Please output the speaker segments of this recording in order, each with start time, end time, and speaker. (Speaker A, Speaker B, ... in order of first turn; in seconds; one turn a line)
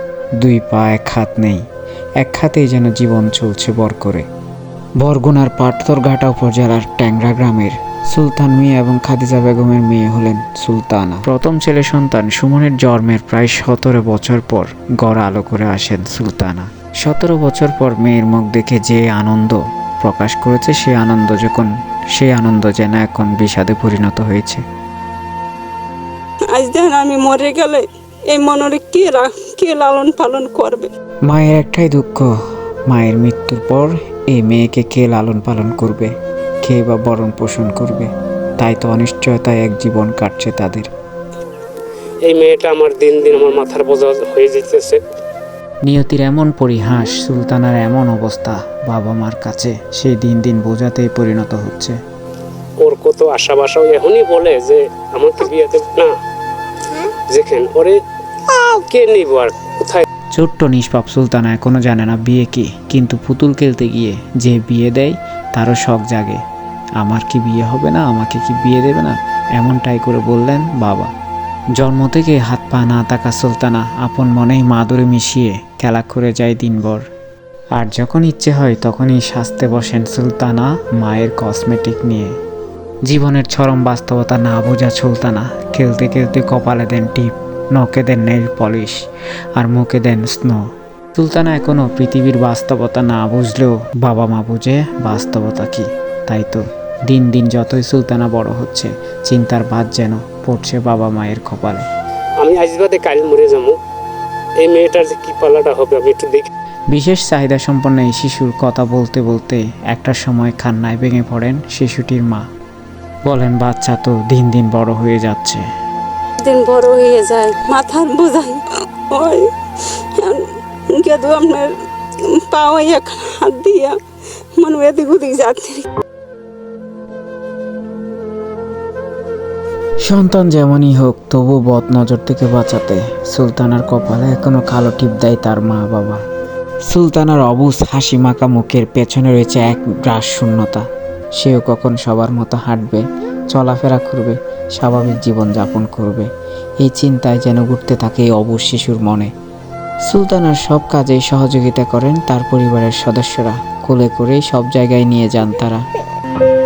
Speaker A: 0.4-1.6
Speaker A: 2.2-4.2
Speaker A: 5.0-24.6
Speaker B: 26.5-30.9
Speaker A: 31.2-32.3
Speaker A: 32.9-40.9
Speaker C: 42.2-45.0
Speaker A: 45.8-52.0
Speaker C: 52.8-56.1
Speaker C: 57.3-58.0
Speaker C: 58.7-60.0
Speaker A: 60.3-66.4
Speaker A: 67.0-71.1
Speaker A: 71.8-77.0
Speaker A: 77.8-82.3
Speaker A: 83.0-89.0
Speaker A: 89.5-101.8
Speaker C: 102.4-103.8
Speaker C: 104.6-106.5
Speaker A: 106.9-112.4
Speaker A: 113.2-115.6
Speaker B: 116.4-121.7
Speaker B: 122.2-124.0
Speaker B: 124.6-125.9
Speaker A: 130.0-136.2
Speaker A: 136.8-149.3
Speaker A: 150.1-155.8